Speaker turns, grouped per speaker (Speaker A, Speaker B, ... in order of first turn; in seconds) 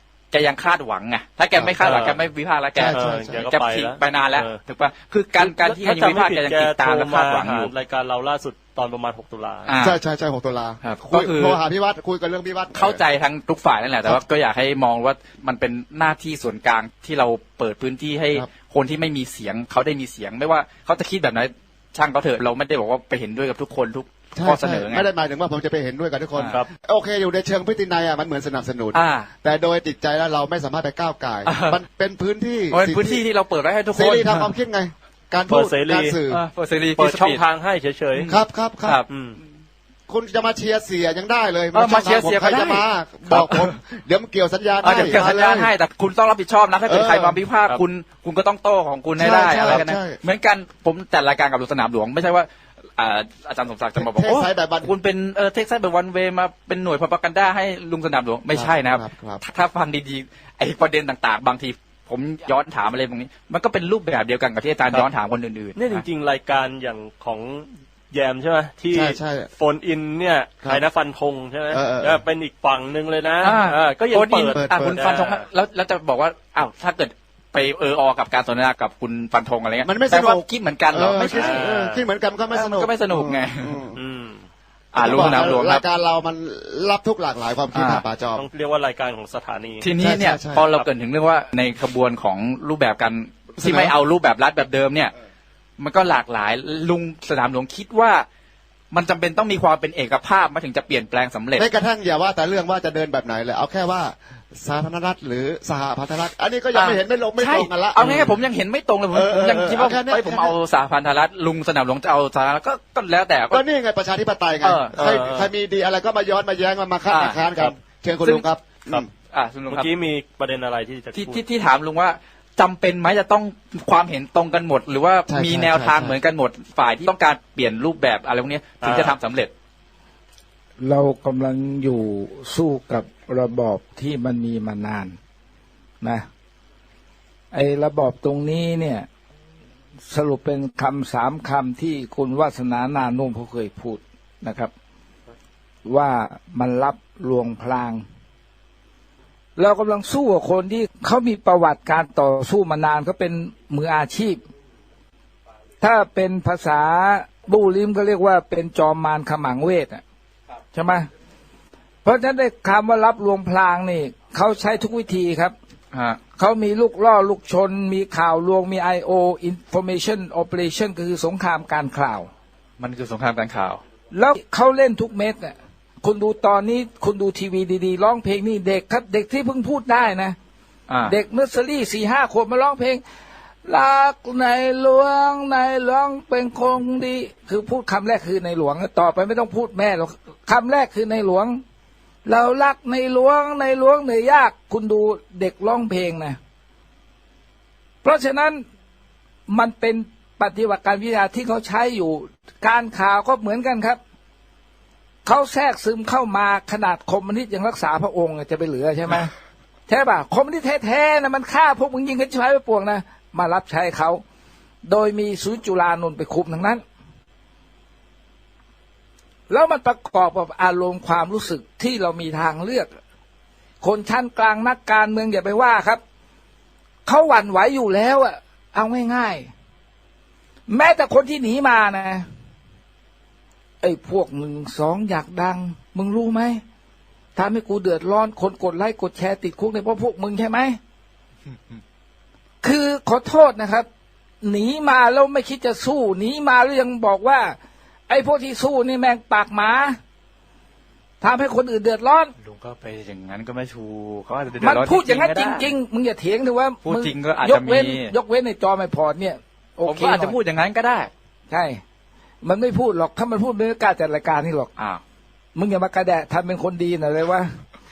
Speaker A: 0.3-7.7, 9.7-10.0, 10.8-11.6, 12.7-25.1, 28.9-29.3, 31.4-31.8, 32.7-34.5, 36.3-37.4, 38.1-39.1, 41.7-43.7, 44.8-66.0, 73.4-81.6, 82.5-83.8, 84.9-85.8, 87.7-88.0, 89.8-95.1, 95.8-98.2, 98.9-101.7, 106.7-113.6, 114.6-115.0, 117.1-117.5, 119.2-119.9, 121.1-129.5, 165.9-166.2, 172.8-173.8, 180.9-181.1, 252.4-255.7, 256.8-258.1, 259.8-261.1
Speaker B: 1.6-1.9, 2.7-3.4, 9.8-13.0, 24.3-33.2, 33.9-36.4, 38.3-39.0, 40.1-45.7, 46.9-47.4, 49.2-50.2, 54.0-54.9, 58.5-59.4, 68.9-69.5, 71.7-72.2, 74.5-75.0, 79.8-84.0, 85.0-88.5, 90.0-90.7, 93.6-93.9, 101.6-108.0, 109.1-110.6, 113.5-119.1, 125.3-126.2
Speaker C: 1.8-2.2, 2.9-4.6, 5.4-9.7, 35.5-36.2, 37.0-38.3, 39.1-39.4, 65.7-75.4, 81.3-82.1, 84.0-84.4, 88.3-89.9, 108.0-108.4, 114.9-115.5, 119.7-121.4, 128.8-129.1
Speaker D: 130.8-135.2, 137.5-139.1, 140.1-144.7, 145.8-148.0, 149.6-154.4, 155.8-160.0, 160.7-161.1, 162.0-165.5, 166.4-172.3, 174.1-180.3, 181.0-183.0, 183.6-191.6, 192.2-196.4, 198.0-198.6, 199.5-204.0, 205.2-209.3, 209.9-214.2, 214.8-216.8, 219.5-222.9, 223.8-226.0, 227.0-229.5, 230.7-232.2, 233.8-236.6, 237.3-240.8, 242.6-243.9, 244.4-247.6, 248.1-250.0, 251.2-252.3, 254.6-260.4, 261.5-261.8, 262.4-264.7, 265.5-267.5